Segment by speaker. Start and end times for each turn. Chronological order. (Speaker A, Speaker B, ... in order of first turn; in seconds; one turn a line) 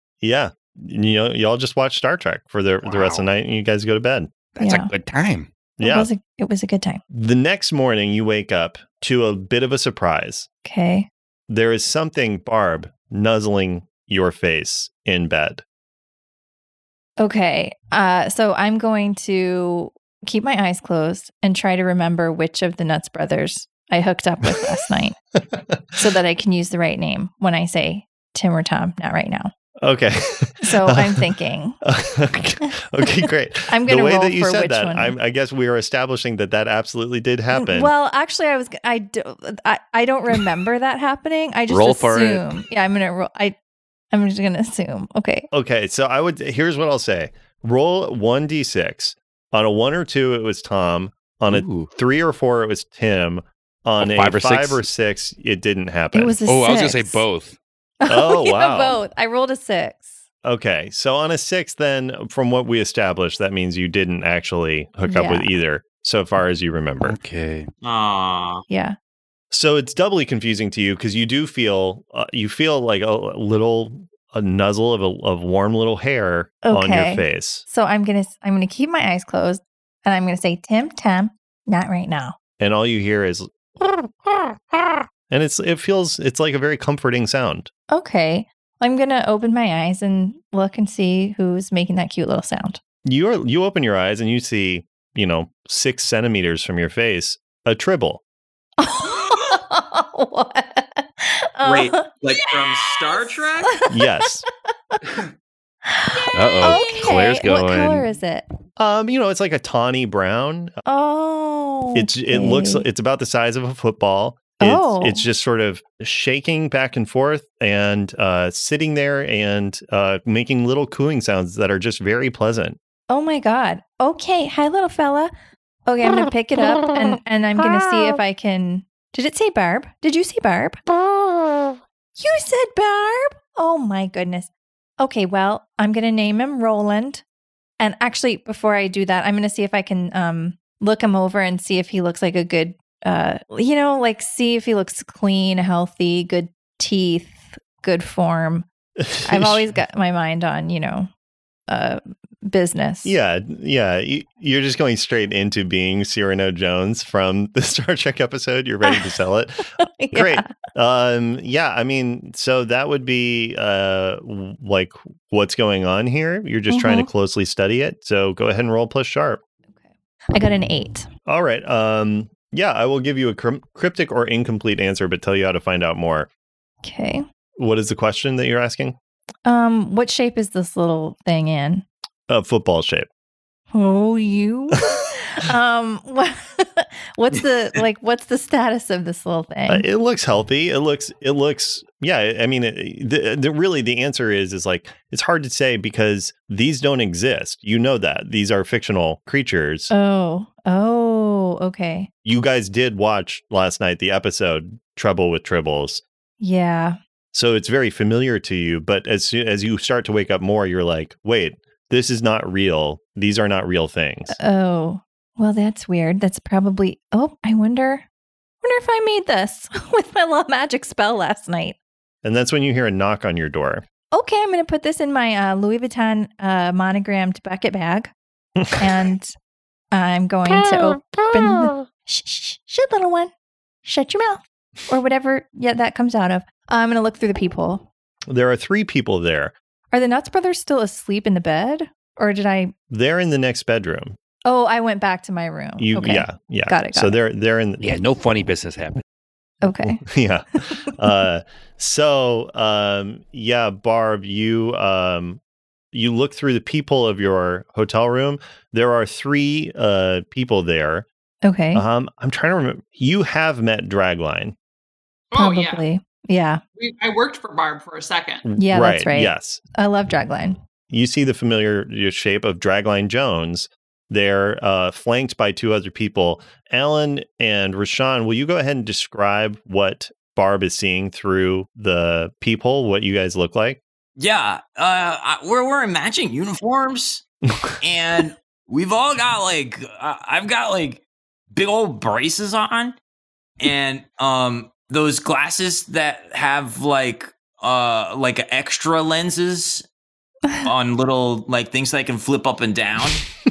Speaker A: 0.2-4.3
Speaker B: 2.8-3.2
Speaker B: 4.5-5.5
Speaker C: 4.6-4.9
Speaker A: 5.8-6.1
Speaker C: 5.8-7.0
Speaker A: 7.1-10.5
Speaker C: 10.6-11.1
Speaker A: 11.5-15.6
Speaker C: 17.2-25.1
Speaker A: 25.5-25.8
Speaker C: 26.0-29.5
Speaker A: 29.8-31.2
Speaker C: 30.6-31.8
Speaker A: 31.8-37.9
Speaker C: 33.7-35.1
Speaker C: 37.5-43.5
Speaker B: 41.7-42.5
Speaker C: 44.1-45.5
Speaker A: 45.5-56.4
Speaker B: 51.5-51.9
Speaker B: 54.0-54.8
Speaker C: 56.1-57.2
Speaker B: 56.5-57.5
Speaker C: 58.0-60.1
Speaker A: 58.1-59.0
Speaker A: 60.5-67.2
Speaker C: 65.1-65.5
Speaker B: 67.0-67.7
Speaker D: 67.8-68.6
Speaker C: 68.7-69.0
Speaker A: 69.5-77.6
Speaker C: 76.6-82.3
Speaker A: 82.6-87.7
Speaker C: 87.9-92.8
Speaker A: 93.0-98.2
Speaker C: 98.8-102.1
Speaker D: 101.6-103.7
Speaker A: 103.9-104.5
Speaker C: 105.9-108.5
Speaker B: 106.3-108.1
Speaker A: 108.8-110.7
Speaker C: 110.9-112.8
Speaker A: 111.9-122.8
Speaker C: 114.6-115.2
Speaker C: 123.1-125.3
Speaker C: 125.9-130.8
Speaker C: 132.2-137.2
Speaker C: 137.8-148.7
Speaker A: 149.0-149.6
Speaker C: 149.2-151.1
Speaker C: 151.7-153.1
Speaker A: 153.0-169.4
Speaker C: 159.8-160.5
Speaker C: 166.7-167.1
Speaker C: 169.7-171.1
Speaker A: 171.3-176.3
Speaker C: 176.8-177.2
Speaker A: 177.6-179.0
Speaker C: 179.4-181.8
Speaker A: 182.3-183.1
Speaker C: 183.7-189.8
Speaker A: 189.7-199.9
Speaker C: 199.9-202.1
Speaker A: 202.2-206.0
Speaker C: 206.4-207.0
Speaker A: 207.3-214.4
Speaker C: 214.3-218.0
Speaker C: 218.6-221.8
Speaker A: 222.2-223.8
Speaker C: 224.1-228.1
Speaker C: 228.8-229.3
Speaker C: 229.9-233.3
Speaker C: 233.8-237.9
Speaker A: 238.3-239.5
Speaker C: 239.9-242.7
Speaker A: 242.9-244.2
Speaker C: 244.4-247.2
Speaker A: 245.8-248.0
Speaker B: 247.8-249.0
Speaker C: 249.6-250.0
Speaker A: 249.8-255.4
Speaker A: 255.9-261.1
Speaker C: 261.4-261.8
Speaker A: 261.7-264.5
Speaker E: 265.3-265.8
Speaker C: 265.4-266.6
Speaker E: 266.8-268.5
Speaker A: 268.5-269.6
Speaker C: 268.6-270.6
Speaker A: 270.9-283.8
Speaker D: 284.2-287.2
Speaker D: 287.8-293.0
Speaker D: 293.6-299.9
Speaker D: 300.6-303.2